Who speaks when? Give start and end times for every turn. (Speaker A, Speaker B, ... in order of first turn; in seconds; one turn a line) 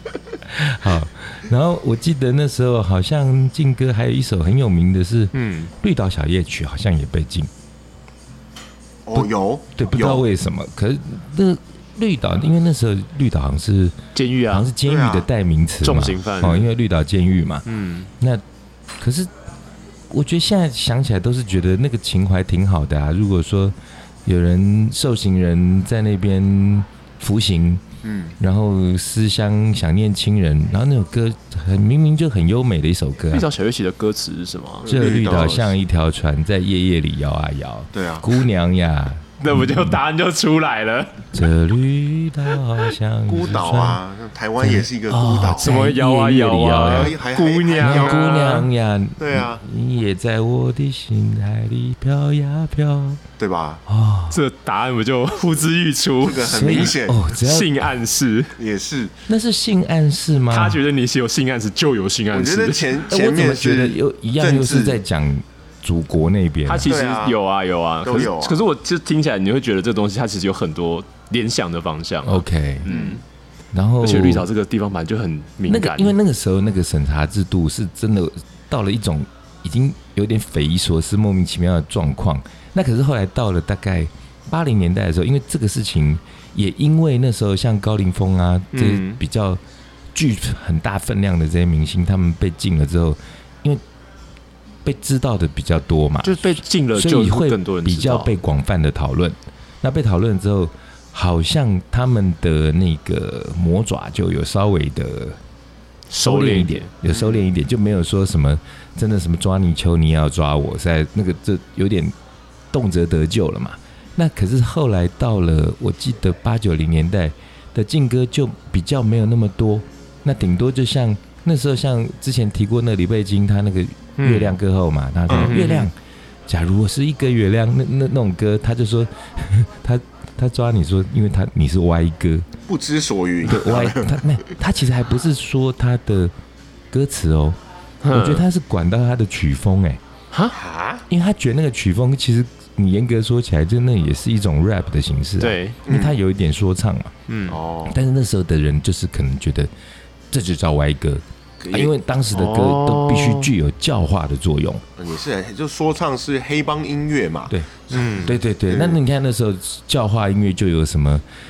Speaker A: 0.5-7.5
Speaker B: 5.3-5.7
Speaker C: 9.1-10.2
Speaker A: 9.2-17.6
Speaker B: 14.2-14.7
Speaker C: 14.8-15.3
Speaker B: 15.8-16.7
Speaker B: 17.7-18.1
Speaker A: 19.0-19.3
Speaker A: 20.1-27.8
Speaker C: 28.0-28.4
Speaker A: 28.4-33.5
Speaker B: 33.3-34.9
Speaker C: 34.8-35.8
Speaker A: 34.9-40.0
Speaker C: 37.9-38.3
Speaker B: 39.4-41.3
Speaker A: 41.3-44.0
Speaker C: 43.3-45.7
Speaker A: 44.6-47.1
Speaker B: 45.6-48.7
Speaker C: 46.8-48.4
Speaker A: 47.8-53.2
Speaker C: 49.2-49.6
Speaker C: 53.4-53.8
Speaker A: 53.9-54.4
Speaker B: 54.3-58.6
Speaker C: 56.2-57.2
Speaker A: 56.5-57.8
Speaker C: 58.6-59.1
Speaker A: 59.3-60.8
Speaker B: 60.5-63.0
Speaker C: 62.3-65.0
Speaker A: 63.1-67.0
Speaker B: 66.7-73.2
Speaker C: 66.8-67.4
Speaker C: 68.0-68.6
Speaker A: 72.2-72.9
Speaker C: 72.9-73.2
Speaker A: 73.7-74.5
Speaker B: 74.0-76.2
Speaker A: 75.7-89.6
Speaker B: 88.7-89.2
Speaker A: 90.1-93.8
Speaker A: 94.8-105.4
Speaker B: 96.2-98.3
Speaker B: 106.1-106.9
Speaker A: 106.2-112.2
Speaker C: 107.1-107.4
Speaker A: 112.7-125.9
Speaker B: 124.2-124.6
Speaker C: 125.3-125.5
Speaker B: 125.3-125.9
Speaker A: 126.5-132.5
Speaker C: 132.7-134.3
Speaker A: 133.4-136.3
Speaker A: 136.9-137.6
Speaker B: 138.0-138.4
Speaker A: 138.1-140.0
Speaker C: 140.5-141.0
Speaker A: 141.1-147.1
Speaker B: 145.4-145.8
Speaker C: 145.9-146.2
Speaker B: 147.3-147.6
Speaker C: 147.5-148.0
Speaker A: 147.9-149.7
Speaker A: 150.3-154.8
Speaker C: 151.6-151.9
Speaker B: 152.3-153.5
Speaker C: 155.0-159.0
Speaker A: 157.5-161.2
Speaker B: 157.9-158.3